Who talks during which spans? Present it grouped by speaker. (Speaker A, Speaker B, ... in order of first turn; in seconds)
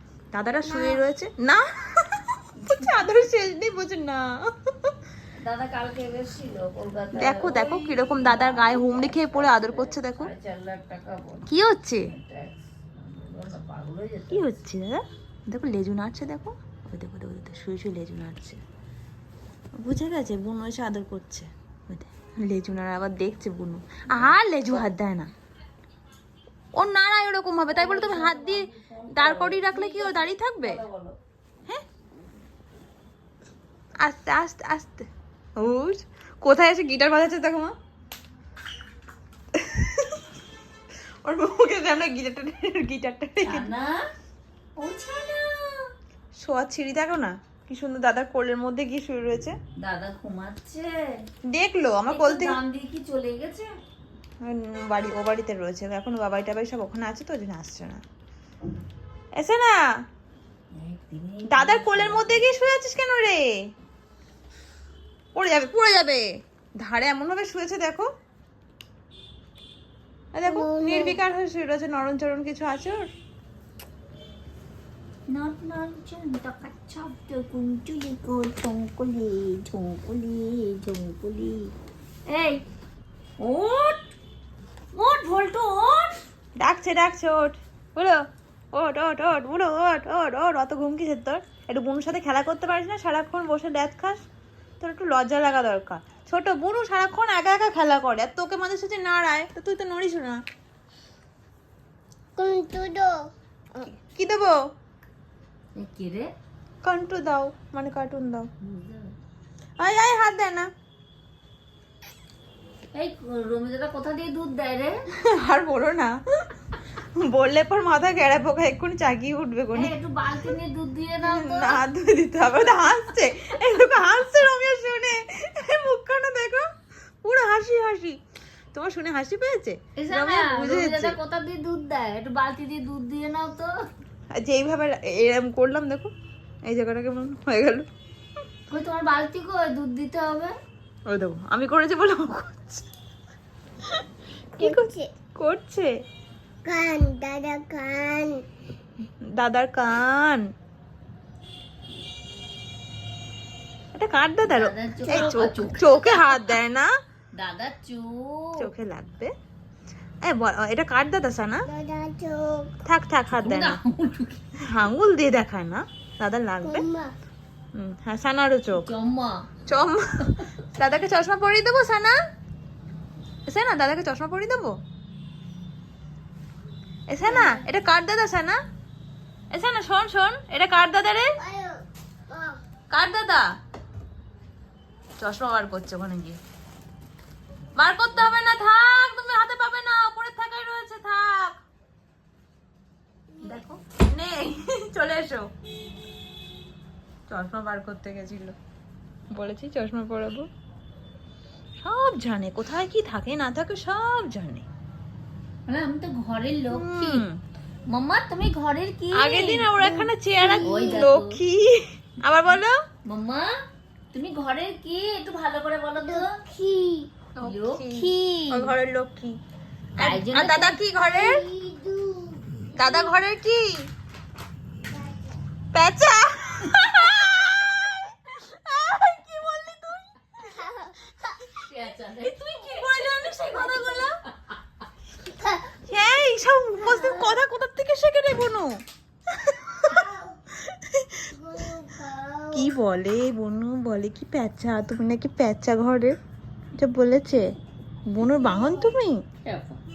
Speaker A: 0.3-4.2, 7.1-10.3, 11.5-12.1, 14.3-18.6, 19.8-25.3, 26.8-30.8, 34.0-35.0, 35.6-37.7, 39.5-40.2, 41.2-43.7, 46.4-49.5, 51.5-52.6, 54.4-58.0, 59.4-59.8, 61.5-63.4, 65.3-66.2, 66.8-68.1, 70.3-73.1, 86.6-88.2, 88.7-94.2, 94.8-100.4, 103.8-104.5, 106.8-108.5, 109.8-110.7, 115.2-116.1, 117.2-120.5, 121.2-126.7, 127.2-128.2, 128.7-131.2, 134.3-136.1, 136.7-137.8, 141.1-142.8, 144.6-145.9, 149.3-150.4, 153.9-156.9, 158.6-159.3, 160.2-161.7, 162.8-163.8, 164.7-166.8, 167.7-168.9, 169.7-172.2, 173.5-174.7, 177.1-178.6, 179.5-181.4, 182.9-183.4, 185.2-186.4, 187.8-191.6, 193.4-195.5, 197.3-198.5, 199.3-200.5, 201.8-204.6, 206.7-207.3, 209.1-212.7, 217.4-219.4, 220.0-221.4, 222.8-223.8, 225.7-230.8, 232.2-234.1, 235.9-238.8, 239.4-240.0, 240.6-241.3, 242.5-246.1, 246.8-247.5, 248.1-249.2
Speaker B: 0.6-1.0, 70.4-71.2, 102.4-103.2, 144.6-145.1, 146.6-148.4, 155.0-155.9, 161.7-162.7, 166.6-167.1, 181.4-182.6, 193.3-193.6, 209.8-211.1, 216.0-217.1, 221.0-223.2, 224.9-225.4, 230.6-231.1, 235.2-235.8, 236.8-237.4, 239.8-240.4, 241.3-242.7, 248.2-248.9
Speaker C: 2.5-2.9, 5.4-11.5, 12.0-14.6, 27.6-31.2, 43.4-44.0, 44.8-45.9, 49.8-51.0, 52.1-53.7, 60.7-62.5, 75.3-81.7, 82.3-82.6, 83.4-84.0, 84.9-86.1, 105.8-106.3, 108.6-109.1, 112.9-114.9, 119.7-121.8, 130.0-133.7, 138.7-140.5, 154.4-156.4, 157.3-158.7, 163.3-164.4, 168.7-169.4, 170.2-170.4, 177.3-177.6, 205.7-207.2, 207.9-209.7, 210.6-211.4, 213.1-213.5, 214.1-216.3, 217.4-218.7, 220.0-220.8, 231.6-234.5, 249.4-249.8